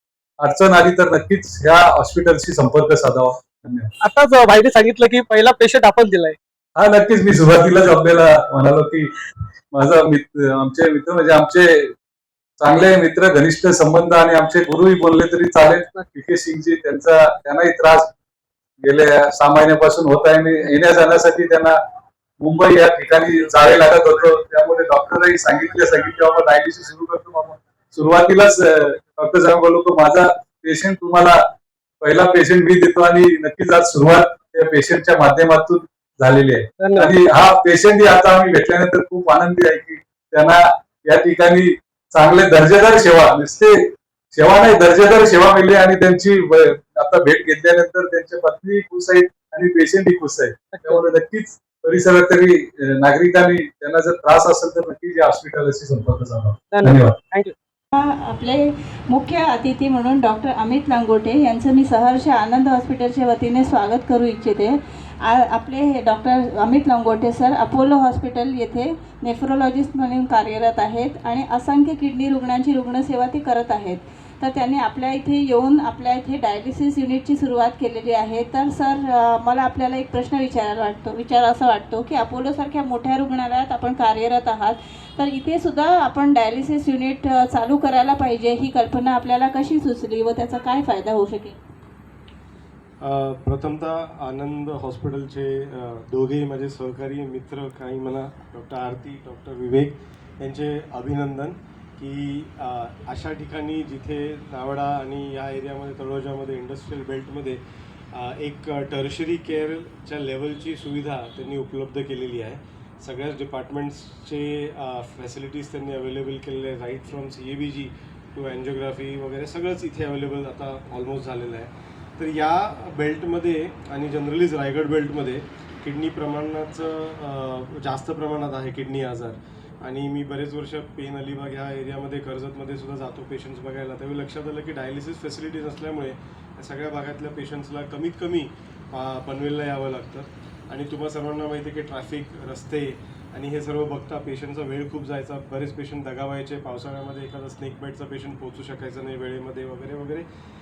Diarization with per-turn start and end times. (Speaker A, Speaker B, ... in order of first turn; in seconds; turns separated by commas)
Speaker A: 0.4-3.9, Speaker B: 4.0-6.4, Speaker A: 6.8-9.1, Speaker A: 9.7-11.9, Speaker A: 12.6-18.1, Speaker A: 18.8-21.8, Speaker A: 22.4-31.4, Speaker A: 32.0-43.8, Speaker B: 36.8-37.1, Speaker A: 44.3-57.2, Speaker B: 50.7-51.0, Speaker B: 56.7-57.5, Speaker C: 57.9-91.5, Speaker D: 93.0-107.6, Speaker D: 108.1-150.2